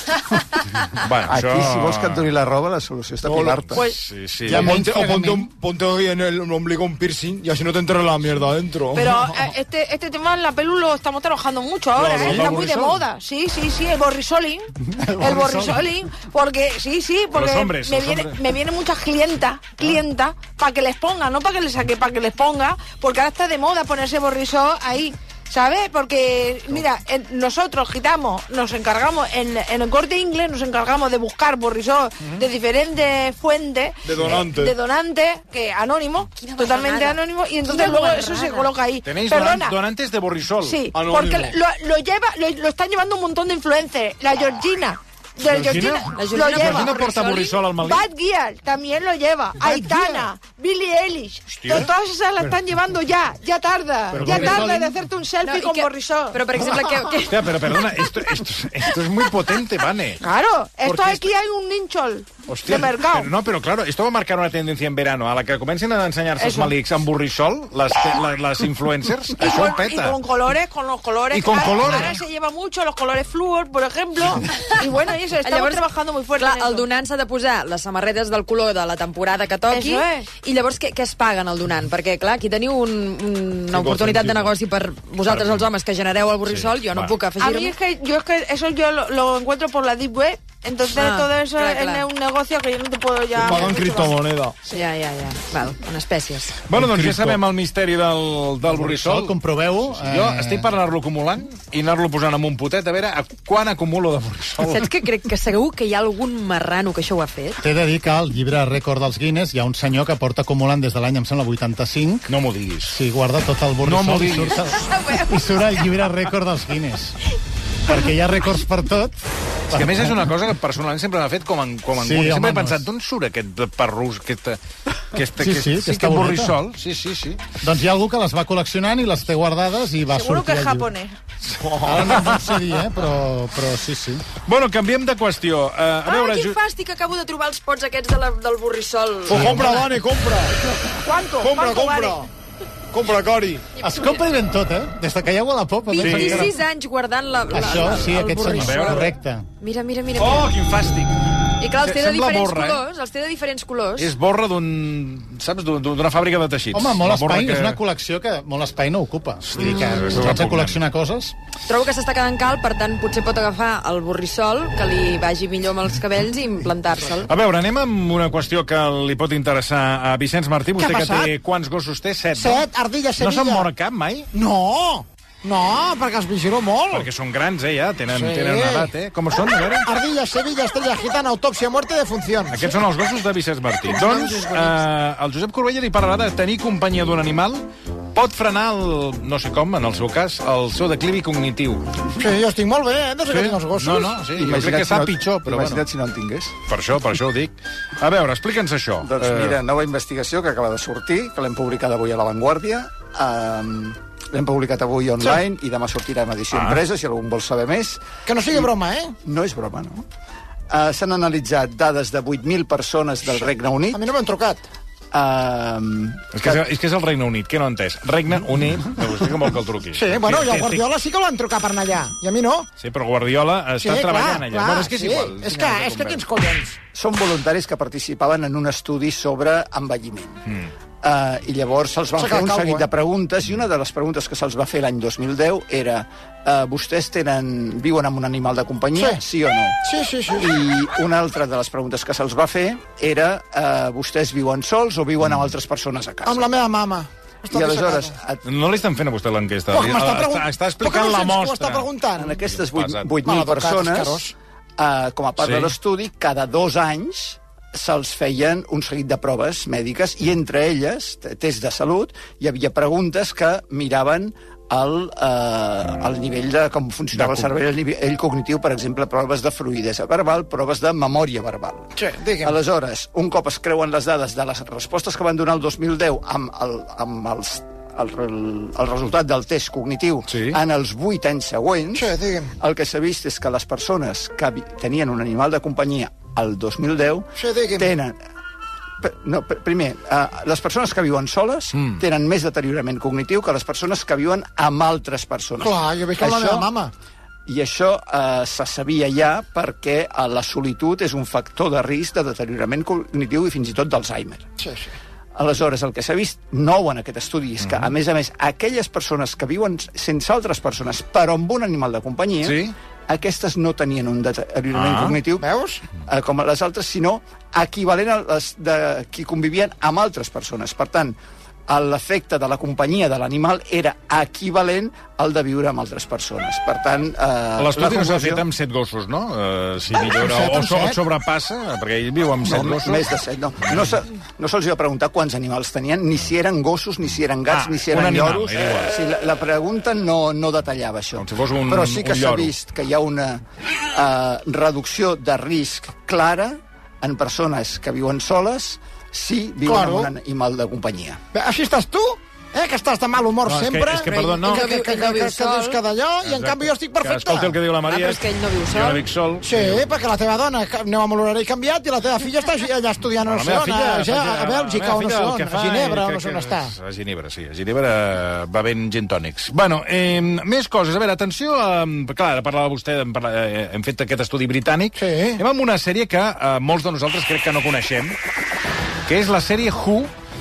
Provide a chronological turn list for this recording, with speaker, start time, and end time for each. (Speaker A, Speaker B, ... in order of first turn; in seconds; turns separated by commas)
Speaker A: 0.9-2.3, Speaker B: 1.2-3.9, Speaker C: 3.2-3.7, Speaker A: 3.8-4.8, Speaker D: 4.5-5.5, Speaker C: 4.5-9.5, Speaker E: 8.9-39.8, Speaker C: 11.9-12.7, Speaker A: 12.2-12.8, Speaker D: 14.9-15.9, Speaker A: 17.3-18.4, Speaker C: 34.0-34.7, Speaker F: 36.3-38.7, Speaker A: 39.0-40.8, Speaker E: 40.6-46.9, Speaker C: 40.9-41.5, Speaker A: 45.4-48.0, Speaker F: 46.1-47.6, Speaker E: 47.8-56.4, Speaker A: 51.5-51.9, Speaker D: 54.1-54.9, Speaker A: 54.1-54.6, Speaker F: 54.3-54.6, Speaker F: 55.4-57.5, Speaker A: 57.2-60.2, Speaker E: 60.2-63.3, Speaker A: 60.8-61.3, Speaker A: 62.5-70.2, Speaker E: 66.4-66.7, Speaker E: 69.4-76.9, Speaker A: 71.3-72.2, Speaker F: 75.4-75.8, Speaker F: 76.4-87.7, Speaker E: 79.7-80.3, Speaker C: 83.7-84.5, Speaker A: 85.2-85.6, Speaker A: 86.5-87.2, Speaker E: 87.4-94.2, Speaker F: 90.9-92.0, Speaker C: 93.3-94.6, Speaker F: 94.7-96.6, Speaker A: 96.7-99.3, Speaker D: 98.7-100.7, Speaker A: 99.9-104.9, Speaker F: 104.6-107.6, Speaker D: 107.6-112.3, Speaker A: 112.3-113.0, Speaker D: 112.9-117.2, Speaker A: 113.8-114.6, Speaker F: 114.6-115.8, Speaker D: 117.8-119.2, Speaker D: 119.7-120.3, Speaker A: 119.7-124.6, Speaker D: 121.9-122.8, Speaker A: 125.1-127.4, Speaker D: 125.4-126.6, Speaker D: 127.6-130.9, Speaker E: 130.1-131.2, Speaker C: 131.6-132.1, Speaker D: 131.8-134.2, Speaker A: 132.0-132.7, Speaker A: 134.4-136.6, Speaker F: 136.0-139.7, Speaker C: 139.3-140.6, Speaker D: 139.3-139.7, Speaker E: 140.8-142.2, Speaker C: 141.4-142.2, Speaker C: 142.9-143.7, Speaker F: 143.8-144.2, Speaker D: 143.8-146.5, Speaker F: 145.9-149.1, Speaker A: 146.0-146.5, Speaker D: 147.5-149.5, Speaker A: 148.4-149.1, Speaker F: 149.6-150.6, Speaker A: 150.2-151.2, Speaker F: 151.6-154.1, Speaker A: 151.7-152.8, Speaker A: 154.0-157.8, Speaker D: 156.7-161.3, Speaker A: 159.5-160.8, Speaker F: 161.7-167.3, Speaker A: 167.2-172.7, Speaker G: 170.8-171.3, Speaker G: 172.3-173.7, Speaker A: 173.2-174.3, Speaker G: 174.3-177.1, Speaker A: 176.9-179.9, Speaker G: 178.1-178.9, Speaker G: 179.8-182.7, Speaker A: 182.5-191.9, Speaker G: 183.9-184.7, Speaker G: 192.2-194.2, Speaker A: 193.3-195.8, Speaker B: 194.3-196.5, Speaker A: 196.7-199.6, Speaker B: 199.0-208.7, Speaker A: 206.5-206.8, Speaker G: 208.2-209.1, Speaker B: 209.2-210.0, Speaker B: 210.7-214.0, Speaker G: 213.9-214.6, Speaker B: 215.1-216.6, Speaker A: 216.3-220.8, Speaker G: 219.9-222.7, Speaker A: 222.8-226.2, Speaker G: 223.8-226.8, Speaker B: 226.9-230.4, Speaker B: 231.0-239.8, Speaker G: 232.2-232.9, Speaker G: 238.9-239.2, Speaker G: 239.8-240.5, Speaker B: 240.3-246.5, Speaker A: 245.2-245.5, Speaker G: 246.2-248.1, Speaker B: 247.5-248.4, Speaker A: 248.4-251.9, Speaker G: 249.7-252.4, Speaker B: 252.2-254.2, Speaker A: 252.4-253.1, Speaker G: 253.2-254.3, Speaker B: 254.8-288.2, Speaker A: 255.4-255.7, Speaker A: 267.1-267.5, Speaker G: 272.0-272.6, Speaker A: 280.3-280.6, Speaker G: 281.9-282.5, Speaker G: 287.4-287.9, Speaker B: 289.0-296.7, Speaker A: 291.7-292.0, Speaker G: 295.6-296.9, Speaker B: 297.4-304.5, Speaker G: 304.6-304.9, Speaker B: 305.4-315.5, Speaker A: 307.6-307.9, Speaker A: 312.4-312.7, Speaker A: 314.7-315.2, Speaker G: 315.4-315.8, Speaker B: 316.0-321.1, Speaker B: 321.7-328.4, Speaker A: 327.6-333.1, Speaker G: 330.1-331.0, Speaker B: 332.4-351.2, Speaker A: 337.5-338.9, Speaker A: 341.2-342.5, Speaker G: 349.6-350.1, Speaker G: 351.3-357.6, Speaker A: 353.4-354.7, Speaker F: 354.4-355.8, Speaker A: 356.2-359.9, Speaker F: 357.9-359.0, Speaker G: 359.4-366.7, Speaker A: 363.2-378.2, Speaker G: 374.9-375.4, Speaker A: 379.1-380.1